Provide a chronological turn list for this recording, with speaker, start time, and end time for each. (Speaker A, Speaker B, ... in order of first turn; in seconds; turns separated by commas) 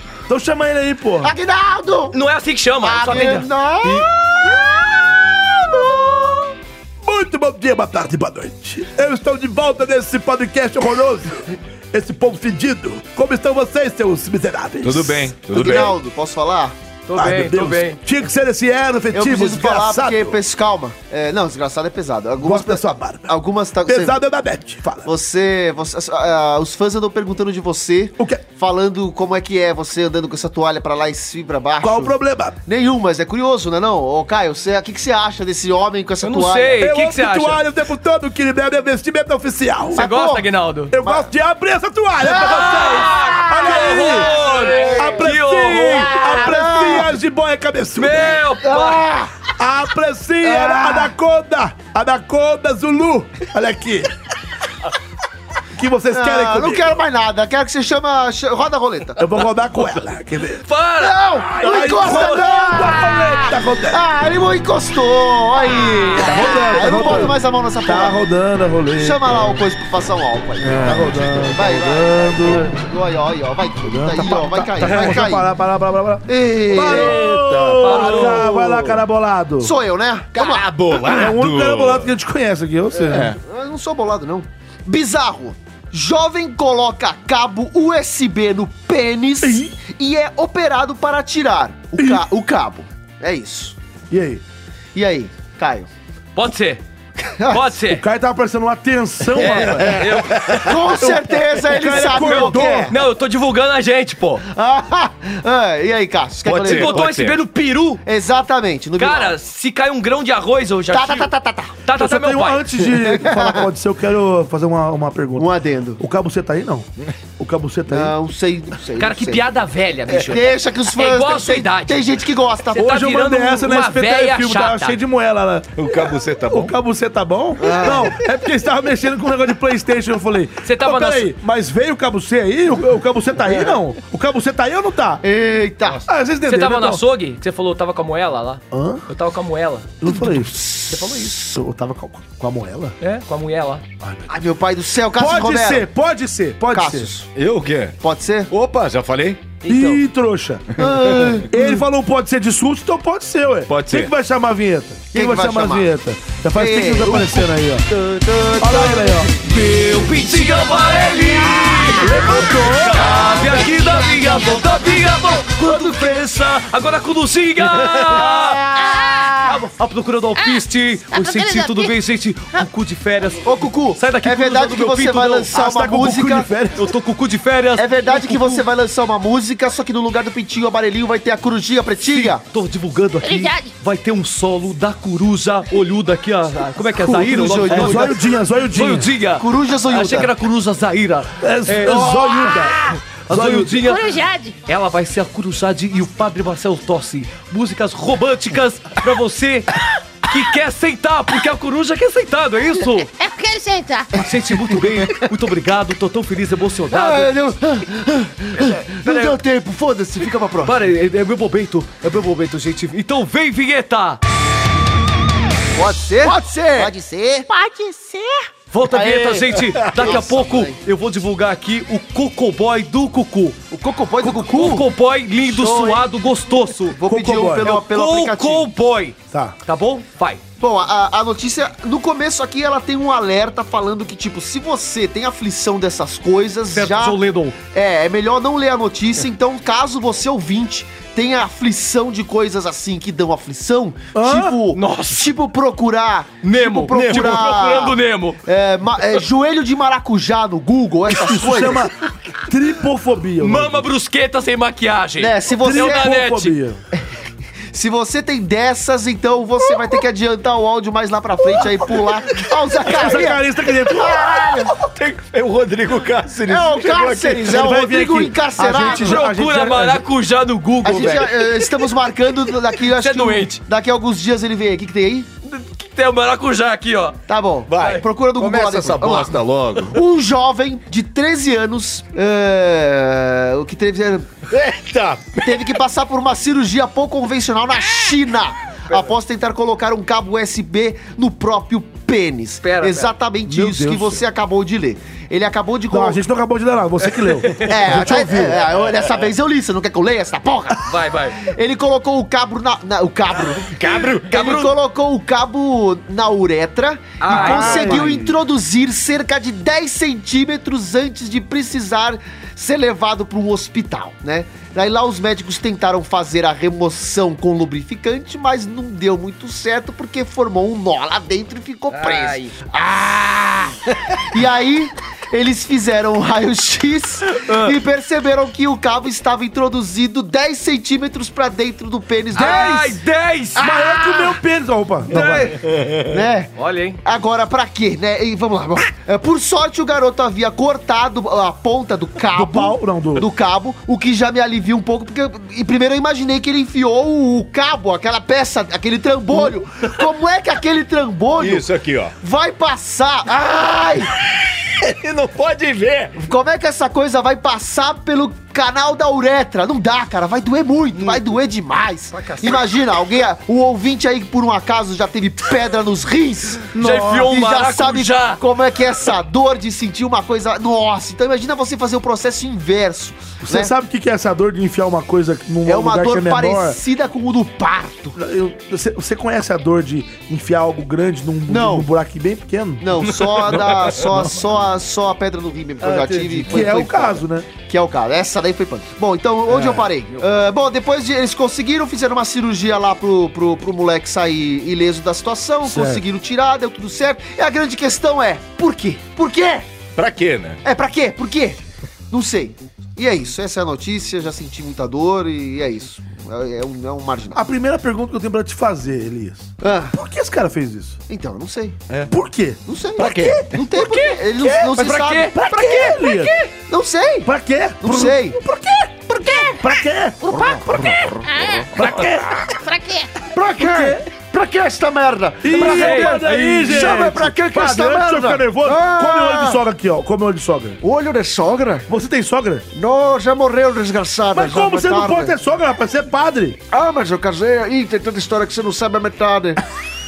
Speaker A: 0.3-1.3, Speaker B: 1.2-2.1, Speaker C: 2.1-3.5, Speaker B: 2.8-6.5, Speaker A: 7.0-15.3, Speaker D: 14.8-15.9, Speaker B: 15.5-16.7, Speaker C: 17.1-18.0, Speaker A: 17.1-20.4, Speaker B: 19.1-24.2, Speaker A: 22.4-23.3, Speaker A: 23.8-25.1, Speaker B: 25.0-36.8, Speaker A: 28.2-28.4, Speaker A: 31.8-32.5, Speaker C: 36.2-37.6, Speaker A: 36.8-40.1, Speaker C: 39.9-40.9, Speaker B: 40.0-40.5, Speaker A: 40.9-48.4, Speaker B: 41.0-41.3, Speaker C: 42.2-46.5, Speaker B: 42.3-45.3, Speaker B: 45.9-47.1, Speaker C: 48.0-49.1, Speaker B: 48.6-49.3, Speaker A: 49.6-54.1, Speaker B: 50.4-51.1, Speaker A: 55.7-56.9, Speaker B: 56.1-59.2, Speaker A: 59.2-60.6, Speaker C: 60.6-62.9, Speaker B: 61.0-63.4, Speaker A: 61.6-64.0, Speaker B: 63.9-68.2, Speaker A: 66.2-69.2, Speaker C: 66.2-67.1, Speaker B: 69.0-75.5, Speaker A: 70.8-72.8, Speaker A: 73.8-79.7, Speaker D: 74.8-75.2, Speaker B: 76.3-77.2, Speaker D: 76.8-79.0, Speaker C: 77.8-78.5, Speaker B: 79.6-80.7, Speaker D: 80.3-82.1, Speaker A: 81.0-83.3, Speaker B: 83.0-93.8, Speaker D: 83.0-83.4, Speaker A: 89.4-89.7, Speaker A: 92.0-92.2, Speaker A: 94.1-94.4, Speaker B: 94.9-95.9, Speaker C: 96.3-96.8, Speaker B: 97.2-97.7, Speaker C: 97.5-98.0, Speaker A: 97.8-100.2, Speaker C: 99.4-100.6, Speaker D: 99.4-100.7, Speaker B: 100.6-102.9, Speaker A: 100.8-102.9, Speaker C: 101.9-104.4, Speaker B: 104.4-107.1, Speaker D: 106.4-107.4, Speaker C: 106.6-108.0, Speaker B: 108.0-109.3, Speaker C: 109.0-111.3, Speaker B: 110.9-111.7, Speaker C: 111.8-112.7, Speaker A: 111.9-118.1, Speaker B: 112.9-113.6, Speaker B: 115.3-116.0, Speaker B: 117.9-119.5, Speaker C: 119.0-122.1, Speaker B: 120.1-122.8, Speaker C: 122.7-125.0, Speaker A: 122.7-125.8, Speaker D: 125.8-126.7, Speaker A: 126.5-135.2, Speaker B: 127.6-128.2, Speaker C: 130.6-131.3, Speaker B: 135.2-136.1, Speaker A: 135.9-137.0, Speaker C: 136.4-139.9, Speaker A: 138.7-139.0, Speaker A: 140.0-142.9, Speaker B: 140.0-141.2, Speaker C: 140.9-141.3, Speaker C: 143.0-143.8, Speaker A: 144.0-144.3, Speaker B: 144.3-145.9, Speaker A: 145.1-147.1, Speaker B: 146.7-147.3, Speaker D: 147.3-148.0, Speaker B: 148.0-148.5, Speaker D: 148.5-149.5, Speaker A: 149.6-150.7, Speaker B: 149.7-149.9, Speaker D: 150.8-151.4, Speaker B: 150.8-151.8, Speaker A: 151.5-157.8, Speaker D: 153.7-154.1, Speaker B: 155.1-155.9, Speaker B: 156.5-159.3, Speaker A: 158.6-159.3, Speaker C: 159.3-168.7, Speaker A: 161.9-163.1, Speaker E: 163.6-164.3, Speaker B: 165.6-166.2, Speaker E: 168.7-169.6, Speaker C: 169.4-175.5, Speaker E: 170.4-171.9, Speaker B: 173.4-176.5, Speaker A: 175.5-176.9, Speaker C: 176.8-178.6, Speaker B: 177.8-182.4, Speaker C: 182.2-188.2, Speaker E: 183.2-183.7, Speaker B: 187.0-188.2, Speaker A: 187.6-189.1, Speaker C: 188.7-192.2, Speaker B: 189.3-190.3, Speaker A: 191.4-192.8, Speaker E: 191.9-192.9, Speaker C: 193.2-194.0, Speaker A: 193.3-193.8, Speaker E: 193.7-194.6, Speaker C: 194.6-203.1, Speaker E: 203.0-204.2, Speaker C: 204.1-207.3, Speaker B: 204.8-205.2, Speaker B: 206.9-210.8, Speaker C: 208.5-209.4, Speaker C: 210.6-214.2, Speaker B: 215.7-217.4, Speaker E: 217.5-218.3, Speaker C: 218.7-223.6, Speaker B: 218.9-220.8, Speaker D: 219.7-220.2, Speaker B: 223.7-224.9, Speaker C: 224.2-227.0, Speaker B: 225.4-226.0, Speaker B: 226.9-228.7, Speaker A: 227.0-227.7, Speaker C: 227.6-230.4, Speaker A: 229.3-229.6, Speaker B: 230.6-251.9, Speaker C: 236.7-237.6, Speaker A: 244.1-244.6, Speaker C: 244.7-245.3, Speaker C: 246.4-248.4, Speaker D: 246.9-247.4, Speaker A: 251.1-253.8, Speaker C: 253.4-256.6, Speaker B: 255.2-256.1, Speaker A: 255.6-256.8, Speaker B: 257.7-264.7, Speaker A: 262.8-264.3, Speaker D: 264.3-267.6, Speaker B: 266.5-269.2, Speaker A: 267.4-270.0, Speaker C: 268.7-271.6, Speaker B: 270.8-275.3, Speaker C: 272.8-273.6, Speaker C: 275.4-277.2, Speaker B: 277.3-279.4, Speaker D: 277.7-280.0, Speaker B: 279.9-284.4, Speaker D: 284.5-285.5, Speaker B: 285.4-296.2, Speaker C: 292.6-293.1, Speaker A: 293.4-294.2, Speaker A: 295.9-298.6, Speaker B: 297.6-332.9, Speaker C: 300.8-301.4, Speaker D: 303.7-304.7, Speaker C: 304.1-304.6, Speaker C: 307.2-308.1, Speaker A: 307.3-308.3, Speaker C: 321.9-322.5, Speaker C: 327.3-327.7, Speaker C: 332.3-334.3, Speaker A: 332.3-332.9, Speaker A: 333.5-335.5, Speaker C: 335.1-335.6, Speaker D: 335.7-336.0, Speaker B: 336.0-351.7, Speaker C: 336.6-337.0, Speaker A: 342.3-343.3, Speaker D: 351.4-352.1, Speaker B: 352.2-354.1, Speaker D: 354.8-356.1, Speaker B: 356.1-373.7, Speaker C: 362.1-362.6, Speaker A: 366.7-367.3, Speaker C: 366.8-368.4, Speaker A: 373.4-376.8, Speaker B: 375.6-378.2, Speaker A: 378.1-383.0, Speaker B: 381.5-381.9, Speaker B: 382.8-399.6, Speaker C: 383.3-384.0, Speaker A: 384.0-384.3, Speaker A: 385.8-387.5, Speaker A: 389.5-389.9, Speaker A: 395.6-396.0, Speaker D: 399.9-400.6, Speaker B: 400.6-401.6, Speaker B: 402.1-407.4, Speaker A: 407.3-411.0, Speaker B: 409.6-409.9, Speaker B: 411.1-411.8, Speaker A: 412.1-413.4, Speaker B: 412.6-415.4, Speaker D: 413.0-413.5, Speaker C: 413.7-416.5, Speaker A: 415.3-416.3, Speaker B: 416.7-418.4, Speaker A: 417.2-420.9, Speaker E: 419.2-419.6, Speaker E: 420.2-420.7, Speaker B: 420.3-421.5, Speaker E: 421.2-422.0, Speaker A: 421.7-422.5, Speaker E: 422.5-423.1, Speaker B: 423.3-429.6, Speaker A: 423.6-424.0, Speaker A: 425.4-430.8, Speaker C: 425.5-427.0, Speaker B: 430.8-431.9, Speaker A: 431.9-432.6, Speaker B: 432.7-435.3, Speaker A: 434.3-436.6, Speaker B: 436.7-439.6